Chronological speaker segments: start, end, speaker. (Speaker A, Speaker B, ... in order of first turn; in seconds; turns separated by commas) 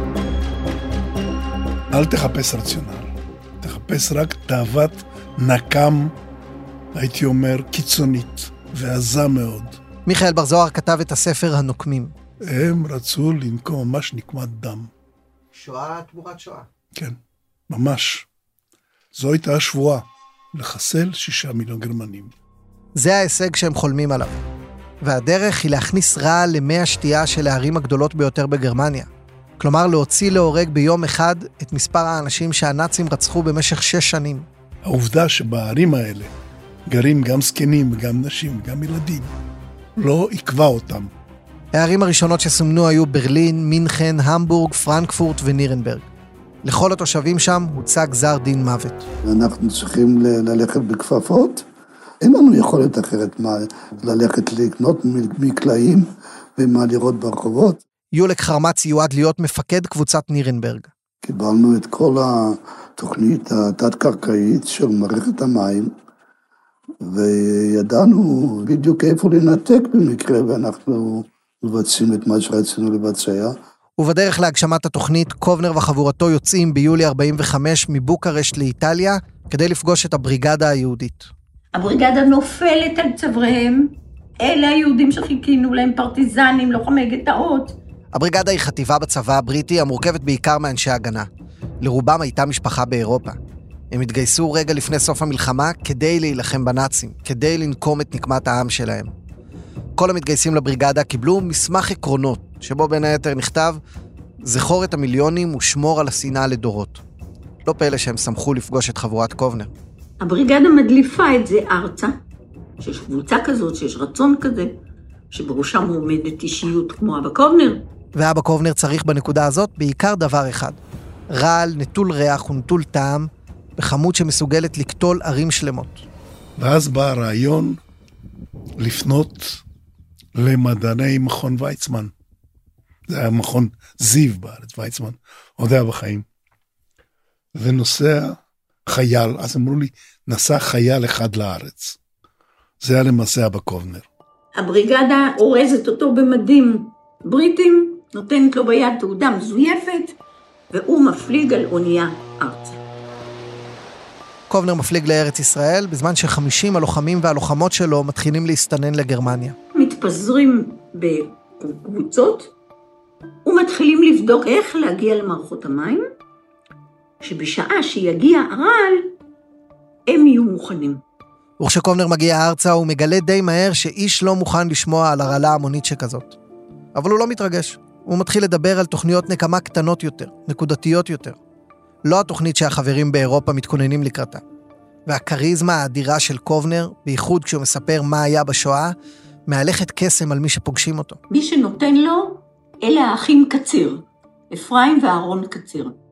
Speaker A: 1.9-6.1, Speaker A: 7.0-9.8, Speaker B: 10.1-12.2, Speaker A: 12.4-14.9, Speaker B: 15.5-16.7, Speaker A: 17.7-18.3, Speaker A: 19.1-22.3, Speaker B: 23.0-24.4, Speaker B: 25.0-34.5, Speaker A: 34.9-36.3, Speaker A: 36.9-39.3, Speaker A: 40.0-41.1, Speaker B: 41.7-46.1, Speaker B: 46.6-49.1, Speaker C: 49.3-51.6, Speaker C: 52.2-57.8, Speaker B: 58.1-60.9, Speaker C: 61.2-65.9, Speaker C: 67.1-73.5, Speaker B: 74.0-81.3, Speaker D: 81.7-87.8, Speaker B: 88.1-91.3, Speaker B: 91.8-93.4, Speaker B: 93.9-99.1, Speaker B: 100.0-103.8, Speaker B: 104.4-107.0, Speaker B: 107.7-109.7, Speaker D: 110.2-112.2, Speaker D: 112.8-114.7, Speaker D: 115.3-117.8, Speaker B: 118.2-120.8, Speaker B: 121.3-126.0, Speaker A: 126.6-127.8, Speaker A: 128.8-129.6, Speaker A: 130.4-132.1, Speaker A: 133.1-136.2, Speaker A: 137.6-142.0, Speaker A: 142.8-144.1, Speaker D: 144.6-150.2, Speaker D: 150.7-152.8, Speaker B: 154.5-159.6, Speaker D: 159.8-162.5, Speaker D: 163.4-166.0, Speaker D: 167.2-169.1, Speaker D: 170.1-171.0, Speaker B: 171.6-176.4, Speaker B: 176.9-181.4, Speaker B: 182.1-184.4, Speaker B: 185.1-188.9, Speaker B: 189.5-191.2, Speaker D: 191.3-195.9